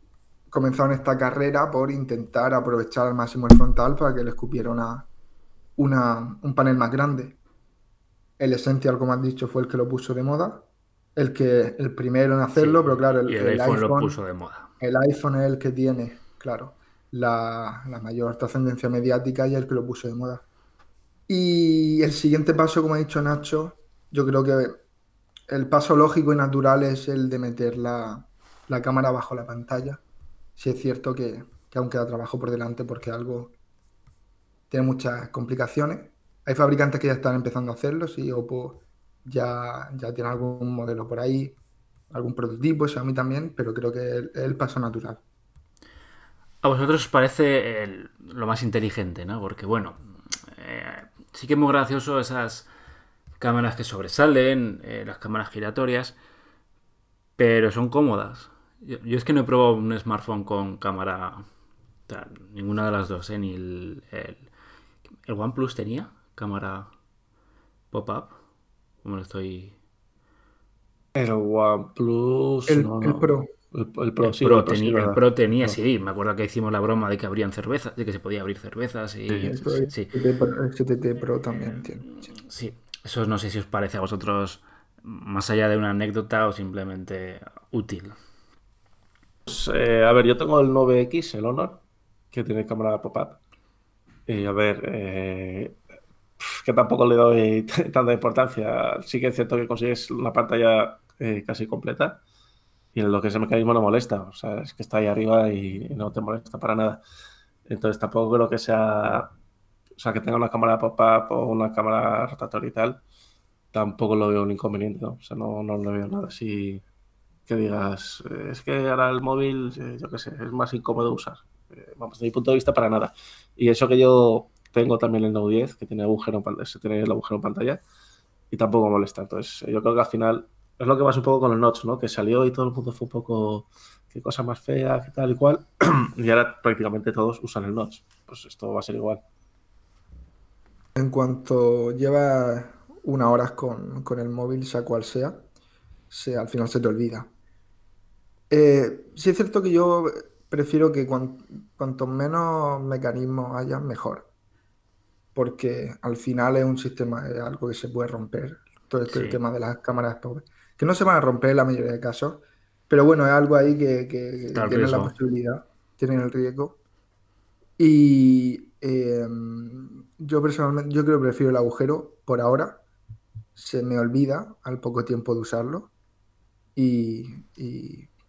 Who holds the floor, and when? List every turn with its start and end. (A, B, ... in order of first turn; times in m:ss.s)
0:00.5-0:05.1 A
0:05.8-0:07.4 A
0:08.4-0:14.2 A
0:12.6-0:14.7 B
0:14.8-0:20.4 A
0:21.3-0:24.8 A
0:25.5-0:30.0 A
0:30.6-0:33.5 A
0:34.7-0:41.6 A
0:42.1-0:45.2 A
0:46.6-0:52.7 B
0:53.4-0:56.2 B
0:57.4-1:01.4 B
1:02.1-1:04.5 B
1:05.3-1:06.9 B
1:07.9-1:08.4 B
1:09.0-1:09.8 B
1:11.2-1:15.8 C
1:12.7-1:13.5 A
1:14.2-1:20.1 B
1:19.4-1:22.1 A
1:22.4-1:28.2 B
1:29.5-1:33.4 C
1:34.3-1:35.8 C
1:36.4-1:42.2 C
1:42.9-1:47.0 C
1:47.7-1:49.3 C
1:50.0-1:53.0 C
1:53.7-1:56.8 C
1:57.5-2:07.8 C
2:08.5-2:19.2 C
2:21.0-2:25.5 A
2:26.1-2:27.3 A
2:28.5-2:34.3 A
2:35.4-2:46.8 A
2:39.1-2:39.4 B
2:44.5-2:45.1 B
2:47.8-2:52.8 A
2:53.6-2:55.9 A
2:56.8-2:58.1 A